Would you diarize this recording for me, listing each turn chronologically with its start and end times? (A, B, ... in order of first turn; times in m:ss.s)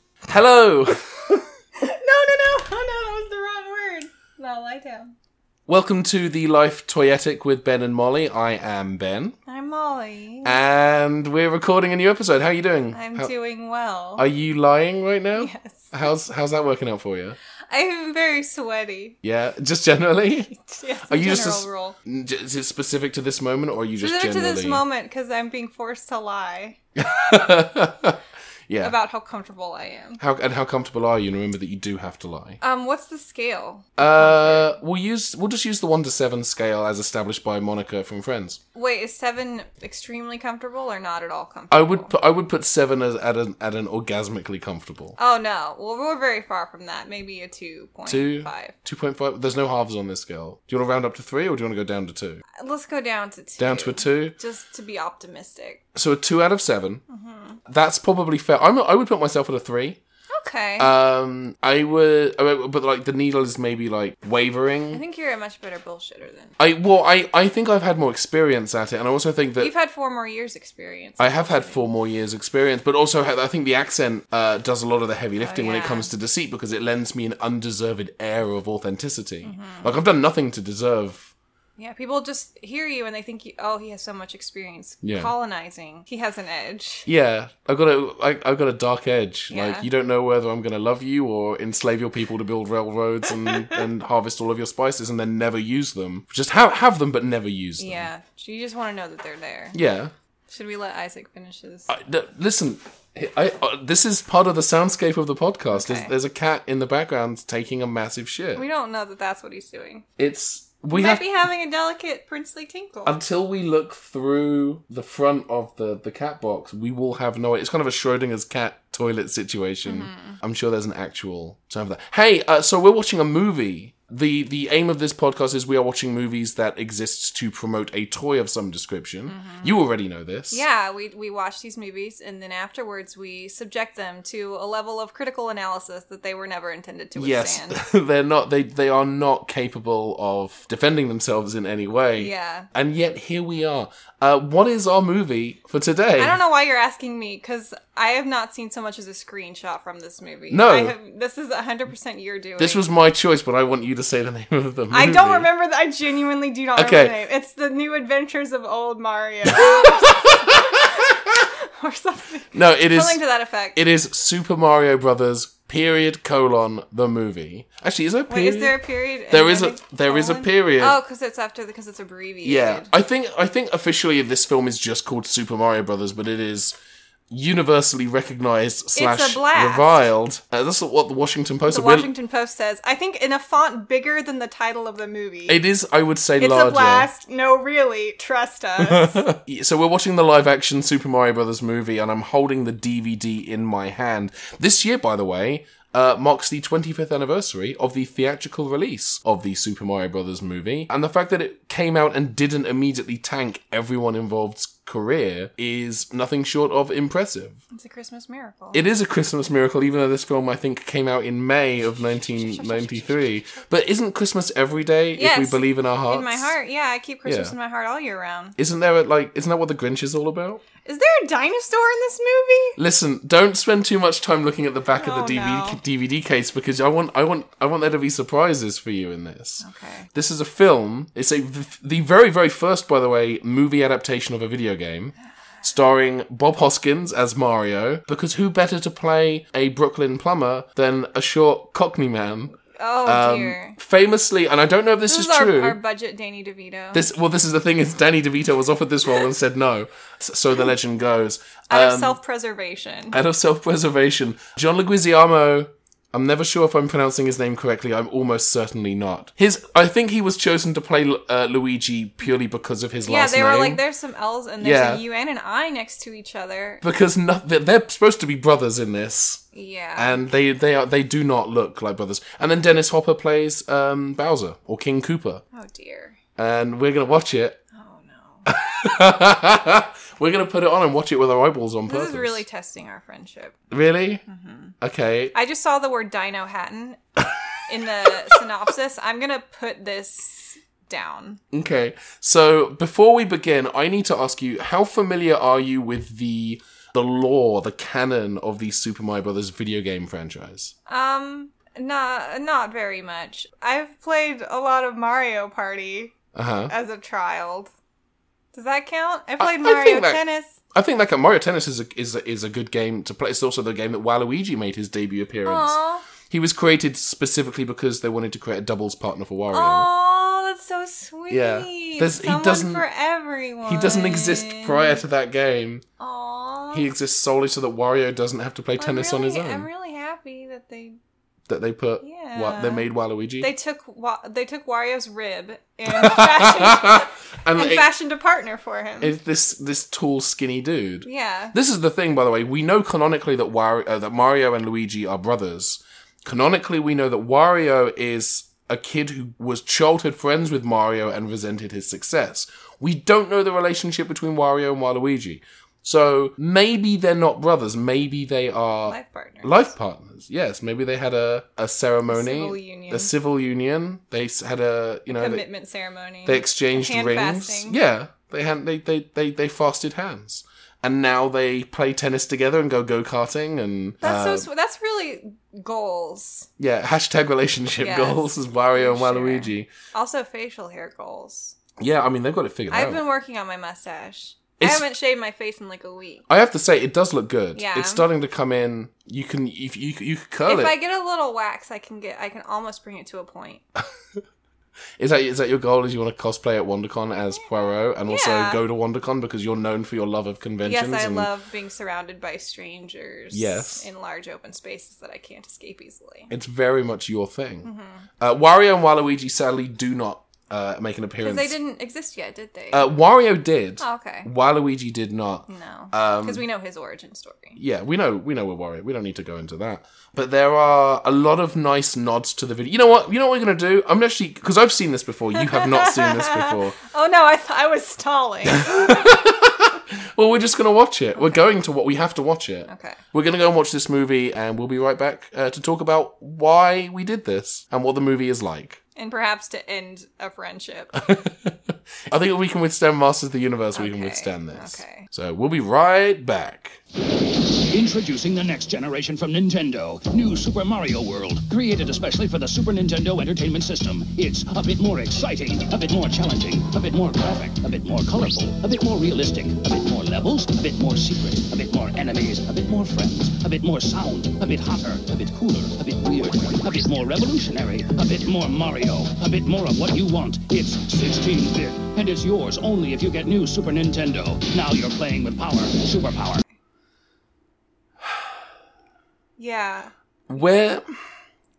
0:00.3-0:01.4 A
0:01.8-0:05.1 B
0:05.7-0:09.4 A
0:09.4-0:10.6 B
0:10.4-0:13.3 A
0:12.9-0:14.2 B
0:14.2-0:17.4 A
0:15.4-0:15.9 B
0:17.7-0:19.2 B
0:19.2-0:20.5 A
0:20.5-0:22.0 B
0:21.1-0:24.8 A
0:24.0-0:26.8 B
0:27.0-0:28.9 A
0:28.8-0:30.2 B
0:30.2-0:32.6 A
0:32.6-0:34.7 B
0:34.0-0:38.6 A
0:38.7-0:42.1 B
0:41.7-0:45.2 A
0:45.2-0:48.7 B
0:48.1-0:52.4 A
0:52.6-0:55.8 B
0:53.6-0:54.3 A
0:55.9-0:57.0 A
0:57.1-0:57.6 B
0:57.7-1:00.0 A
1:00.3-1:00.9 B
1:00.8-1:05.0 A
1:04.9-1:06.6 B
1:06.6-1:09.7 A
1:09.6-1:11.8 B
1:11.2-1:21.3 A
1:15.4-1:16.1 B
1:19.4-1:19.9 B
1:21.8-1:27.0 B
1:25.0-1:25.3 A
1:27.0-1:38.1 A
1:29.5-1:29.9 B
1:37.8-1:39.8 B
1:39.7-1:40.1 A
1:40.5-1:41.9 B
1:41.9-1:48.6 A
1:45.7-1:46.1 B
1:48.6-1:50.0 B
1:50.2-1:51.2 A
1:50.9-1:53.2 B
1:53.0-2:10.6 A
1:59.8-2:00.4 B
2:09.3-2:09.7 B
2:10.5-2:17.8 B
2:17.2-2:26.4 A
2:22.2-2:22.7 B
2:26.2-2:32.8 B
2:30.5-2:30.9 A
2:32.6-2:35.5 A
2:34.9-2:43.8 B
2:36.8-2:37.2 A
2:39.4-2:40.9 A
2:42.5-2:43.2 A
2:43.7-2:51.0 A
2:48.3-2:52.9 B
2:52.4-2:56.7 A
2:57.3-3:02.1 A
2:59.0-3:00.0 B
3:01.7-3:05.6 B
3:05.5-3:07.1 A
3:06.4-3:09.3 B
3:08.8-3:27.6 A
3:27.7-3:28.8 B
3:28.7-3:36.6 A
3:32.2-3:33.6 B
3:35.1-3:38.6 B
3:37.2-3:37.5 A
3:38.6-3:40.6 A
3:40.8-3:42.8 B
3:42.8-4:05.8 A
3:45.0-3:45.8 B
3:49.6-3:50.1 B
4:02.7-4:03.8 B
4:05.1-4:07.1 B
4:06.9-4:12.2 A
4:11.7-4:13.2 B
4:13.1-4:23.8 A
4:23.0-4:26.8 B
4:24.6-4:25.0 A
4:26.8-4:29.4 A
4:29.5-4:30.2 B
4:30.0-4:35.4 A
4:35.5-4:36.2 B
4:36.4-4:37.6 A
4:37.7-4:38.5 B
4:38.4-4:42.4 A
4:41.9-4:43.6 B
4:43.7-4:44.2 A
4:44.3-4:44.7 B
4:44.8-4:45.3 A
4:45.3-4:47.0 B
4:47.6-4:51.4 B
4:51.5-5:00.7 A
5:00.9-5:06.2 B
5:06.3-5:06.7 A
5:06.7-5:07.7 B
5:08.5-5:10.6 B
5:09.4-5:15.8 A
5:15.4-5:16.0 B
5:16.3-5:19.9 A
5:19.5-5:25.0 B
5:21.3-5:22.8 A
5:23.6-5:25.8 A
5:26.0-5:26.9 B
5:26.7-5:29.7 A
5:28.8-5:31.0 B
5:31.5-5:33.5 A
5:32.0-5:32.8 B
5:33.4-5:39.1 B
5:35.9-5:37.9 A
5:39.0-6:05.4 A
5:41.0-5:41.6 B
5:58.8-5:59.7 B
6:02.1-6:03.1 B
6:05.1-6:07.8 B
6:06.2-6:14.5 A
6:14.0-6:16.5 B
6:16.6-6:19.7 A
6:17.8-6:21.6 B
6:21.8-6:23.0 A
6:22.7-6:26.2 B
6:24.6-6:24.8 A
6:26.3-6:30.8 A
6:27.5-6:28.0 B
6:30.4-6:33.6 B
6:35.0-6:41.3 A
6:38.1-6:38.6 B
6:40.6-6:46.3 B
6:43.3-6:43.8 A
6:46.3-6:47.7 A
6:47.6-6:48.1 B
6:48.2-6:51.6 A
6:51.2-6:52.9 B
6:52.7-6:56.4 A
6:53.8-6:54.3 B
6:55.5-6:57.6 B
6:57.6-7:06.8 A
7:05.3-7:09.0 B
7:08.4-7:18.8 A
7:12.7-7:13.0 B
7:19.0-7:21.0 B
7:21.0-7:26.8 A
7:23.7-7:25.1 B
7:27.7-7:56.4 C
7:59.4-7:59.9 B
8:00.3-8:00.8 A